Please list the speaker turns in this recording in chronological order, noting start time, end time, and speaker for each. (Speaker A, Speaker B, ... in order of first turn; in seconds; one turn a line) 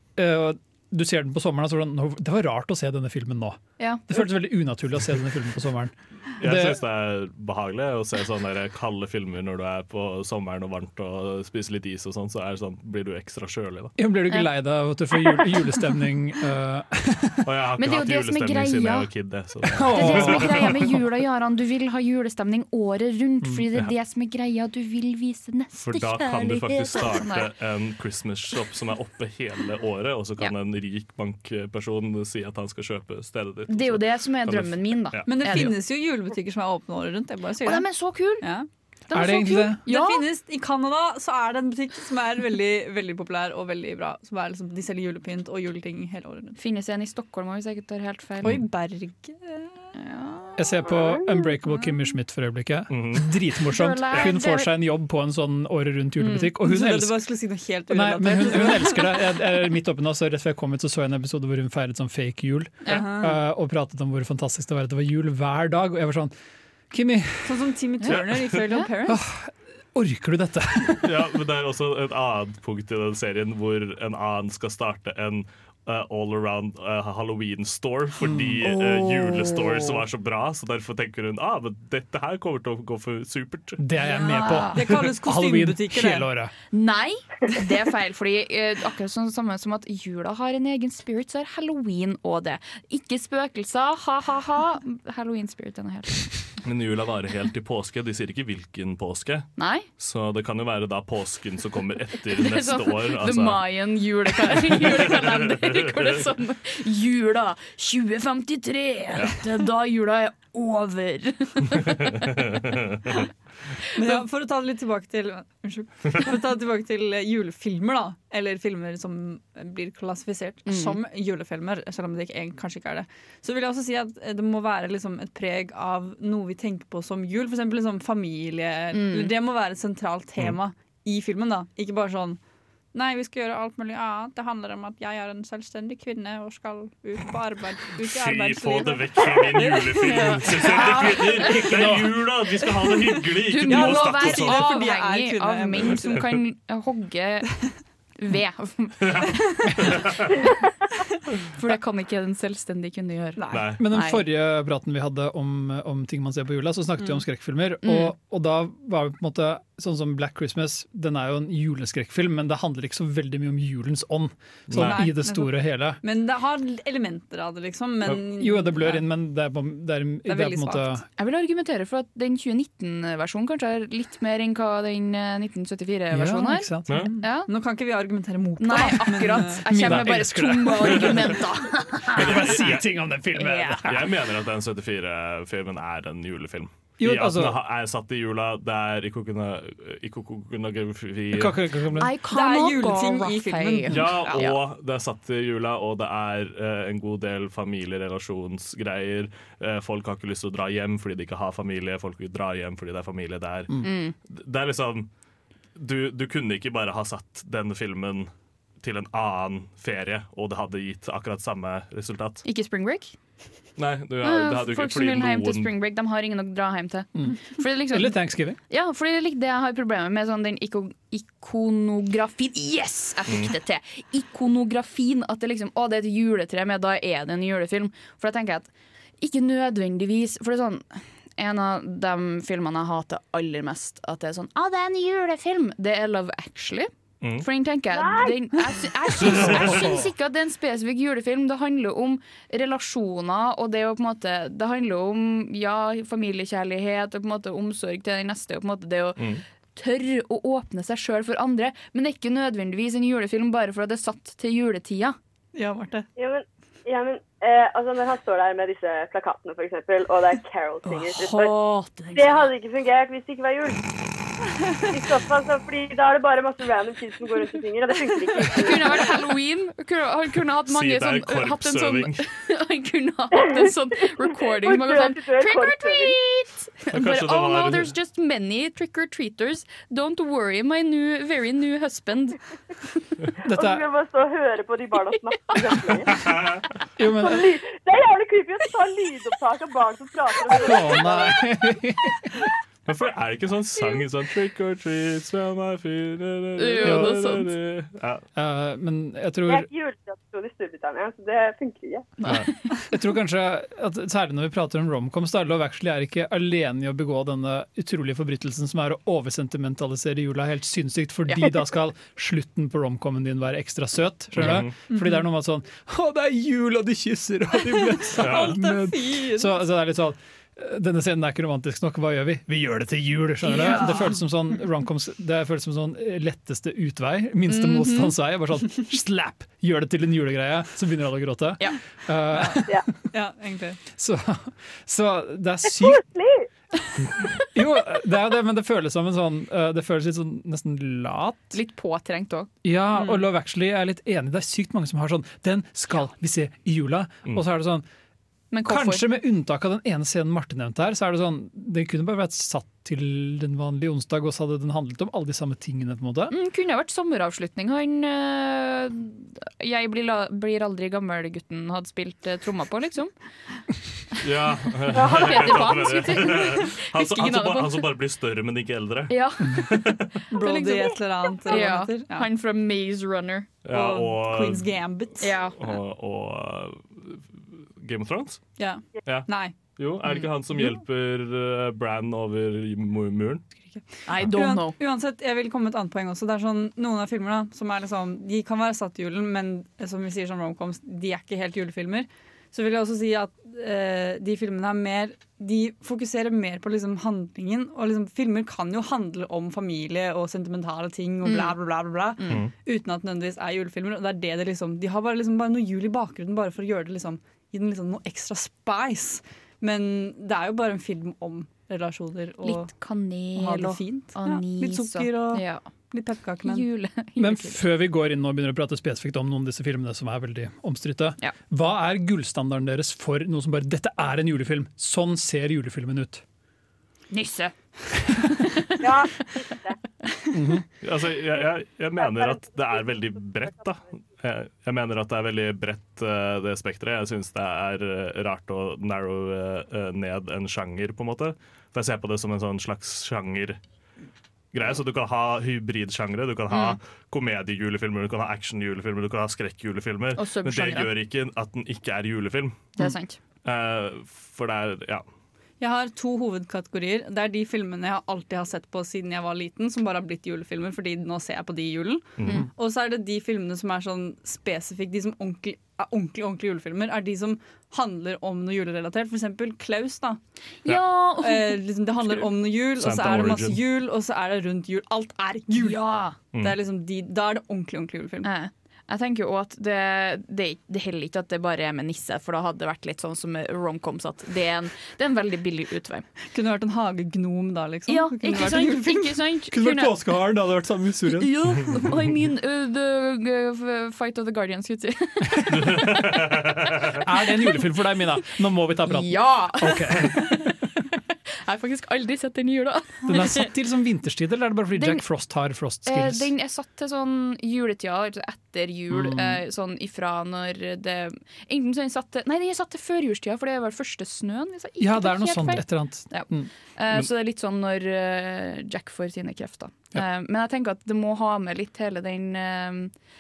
Speaker A: 0.1-6.8
Speaker B: 3.8-4.0
Speaker C: 6.4-13.9
Speaker A: 14.0-17.4
Speaker B: 15.1-15.6
Speaker C: 17.4-21.0
Speaker B: 17.8-19.1
Speaker A: 19.7-21.0
Speaker B: 19.9-27.5
Speaker C: 25.7-35.6
Speaker B: 33.7-35.7
Speaker D: 35.2-37.9
Speaker B: 37.6-38.5
Speaker D: 38.4-38.7
Speaker B: 39.1-40.3
Speaker A: 39.1-39.8
Speaker D: 39.8-46.6
Speaker B: 46.6-48.6
Speaker D: 48.4-49.9
Speaker B: 49.9-50.6
Speaker A: 50.6-57.3
Speaker E: 50.9-51.2
Speaker C: 52.9-53.3
Speaker B: 53.7-54.7
Speaker B: 56.2-56.5
Speaker D: 56.6-59.3
Speaker A: 57.9-66.3
Speaker D: 62.9-63.4
Speaker A: 66.9-67.7
Speaker D: 67.4-69.2
Speaker B: 68.0-68.9
Speaker A: 69.0-71.2
Speaker C: 71.0-83.8
Speaker A: 78.2-78.6
Speaker B: 78.6-80.0
Speaker A: 83.8-86.5
Speaker B: 84.1-84.8
Speaker D: 84.3-86.3
Speaker B: 86.7-96.3
Speaker C: 96.6-103.6
Speaker B: 99.6-99.9
Speaker B: 102.3-112.5
Speaker C: 104.5-106.0
Speaker C: 112.3-113.1
Speaker D: 113.9-132.4
Speaker B: 120.7-121.0
Speaker B: 128.9-129.3
Speaker D: 132.9-141.6
Speaker C: 138.0-144.7
Speaker A: 141.4-142.2
Speaker B: 143.3-147.5
Speaker D: 143.6-146.3
Speaker B: 148.2-150.5
Speaker C: 149.0-150.4
Speaker B: 151.5-154.2
Speaker D: 153.3-153.7
Speaker C: 153.5-153.8
Speaker A: 153.8-166.0
Speaker B: 157.8-158.1
Speaker C: 164.7-165.0
Speaker D: 164.7-169.0
Speaker A: 168.3-171.0
Speaker D: 170.3-171.0
Speaker B: 171.2-177.5
Speaker A: 176.1-177.1
Speaker C: 176.9-177.1
Speaker D: 177.0-179.7
Speaker B: 178.6-182.7
Speaker A: 179.6-184.1
Speaker C: 182.1-182.9
Speaker B: 183.3-184.0
Speaker C: 183.8-191.6
Speaker A: 187.0-187.6
Speaker A: 191.3-192.1
Speaker B: 191.9-194.6
Speaker D: 192.2-194.4
Speaker C: 193.9-205.1
Speaker B: 203.8-204.1
Speaker C: 205.8-208.3
Speaker C: 208.8-212.4
Speaker B: 212.4-213.1
Speaker C: 213.8-215.7
Speaker B: 214.2-255.2
Speaker A: 217.2-218.6
Speaker E: 237.9-238.4
Speaker A: 239.6-240.1
Speaker C: 249.2-249.4
Speaker D: 255.5-256.1
Speaker E: 256.2-261.5
Speaker B: 260.8-262.5
Speaker E: 262.1-263.9
Speaker E: 264.8-269.1
Speaker B: 268.5-282.4
Speaker C: 270.7-272.2
Speaker E: 274.3-276.1
Speaker C: 276.9-277.9
Speaker A: 283.4-283.8
Speaker E: 283.5-286.3
Speaker C: 286.1-286.6
Speaker A: 287.0-287.5
Speaker E: 287.1-291.4
Speaker A: 290.5-292.5
Speaker C: 292.9-298.2
Speaker B: 296.6-297.5
Speaker A: 296.8-297.2
Speaker A: 298.3-299.7
Speaker E: 299.5-302.1
Speaker B: 302.2-302.7
Speaker A: 302.9-332.9
Speaker C: 314.4-314.7
Speaker D: 318.1-319.6
Speaker C: 318.2-318.6
Speaker B: 323.4-324.1
Speaker B: 327.5-328.1
Speaker D: 332.3-332.6
Speaker D: 333.1-333.8
Speaker A: 333.9-336.0
Speaker E: 335.8-336.4
Speaker A: 337.4-341.5
Speaker B: 341.5-342.5
Speaker A: 342.6-347.8
Speaker B: 348.5-349.1
Speaker A: 348.6-356.3
Speaker B: 356.3-363.1
Speaker C: 364.2-370.2
Speaker B: 364.9-367.9
Speaker E: 364.9-365.6
Speaker B: 369.1-373.5
Speaker D: 370.3-372.3
Speaker C: 373.6-374.7
Speaker D: 373.7-375.4
Speaker B: 375.2-375.8
Speaker C: 375.6-377.2
Speaker C: 377.8-378.4
Speaker D: 378.6-379.6
Speaker C: 379.0-383.4
Speaker D: 383.8-412.7
Speaker B: 384.1-384.8
Speaker B: 401.2-401.6
Speaker C: 402.3-402.5
Speaker B: 412.4-415.7
Speaker D: 413.3-416.6
Speaker B: 416.4-417.6
Speaker A: 417.2-426.2
Speaker B: 427.1-428.9
Speaker E: 428.8-429.8
Speaker A: 430.3-430.6
Speaker C: 430.8-443.6
Speaker C: 444.5-452.7
Speaker B: 446.5-446.8
Speaker B: 450.1-450.9
Speaker B: 452.8-453.2
Speaker C: 453.4-455.0
Speaker D: 455.6-470.2
Speaker C: 462.2-462.4
Speaker B: 470.6-472.3
Speaker D: 471.2-475.8
Speaker C: 472.8-473.6
Speaker B: 475.6-476.1
Speaker D: 476.4-478.3
Speaker B: 478.2-486.1
Speaker D: 486.3-489.2
Speaker B: 487.9-489.9
Speaker A: 489.5-491.3
Speaker B: 491.1-496.3
Speaker C: 495.5-497.0
Speaker A: 496.9-500.6
Speaker B: 498.9-500.5
Speaker B: 501.3-503.5
Speaker A: 503.1-506.3
Speaker B: 504.7-505.0
Speaker B: 505.8-522.9
Speaker A: 508.9-509.4
Speaker A: 514.8-516.5